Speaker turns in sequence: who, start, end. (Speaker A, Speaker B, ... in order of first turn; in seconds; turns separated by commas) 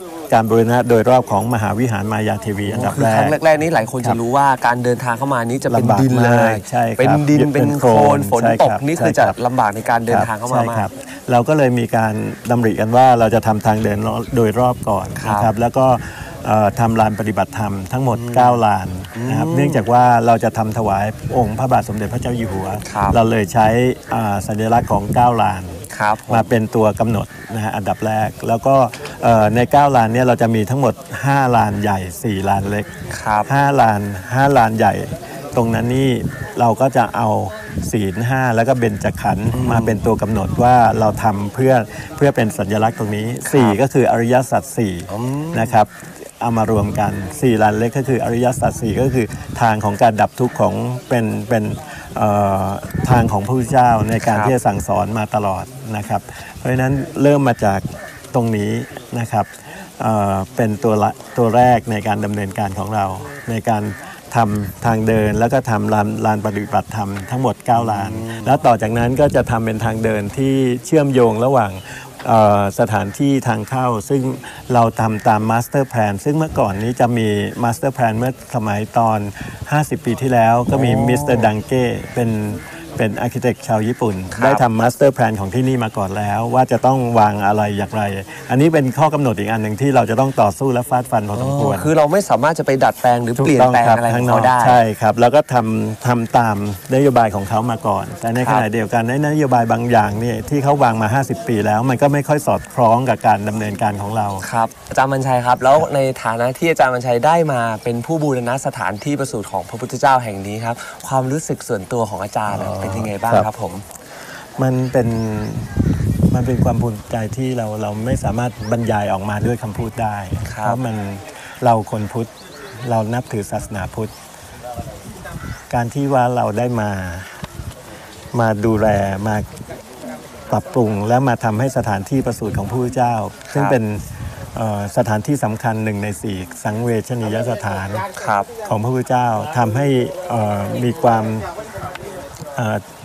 Speaker A: 0.3-3.4, Speaker B: 2.6-10.9, Speaker A: 5.7-9.3, Speaker A: 10.1-32.9, Speaker B: 15.2-15.5, Speaker B: 18.1-18.6, Speaker B: 19.1-19.9, Speaker B: 22.9-23.2, Speaker B: 25.9-26.5, Speaker B: 33.1-33.5, Speaker A: 33.5-91.9, Speaker B: 39.5-40.0, Speaker B: 43.5-43.8, Speaker B: 45.1-45.8, Speaker B: 54.2-54.5, Speaker B: 67.7-68.5, Speaker B: 80.7-81.5, Speaker B: 84.3-84.6, Speaker B: 91.3-94.8, Speaker A: 93.3-104.5, Speaker B: 98.4-98.7, Speaker B: 104.4-113.8, Speaker A: 112.5-113.5, Speaker A: 114.6-115.7, Speaker A: 116.3-122.3, Speaker B: 120.5-120.8, Speaker A: 122.8-124.1, Speaker A: 125.7-127.5, Speaker A: 128.3-129.4, Speaker A: 130.5-138.0, Speaker B: 133.5-133.8, Speaker B: 138.2-138.5, Speaker A: 138.6-141.5, Speaker A: 142.6-142.8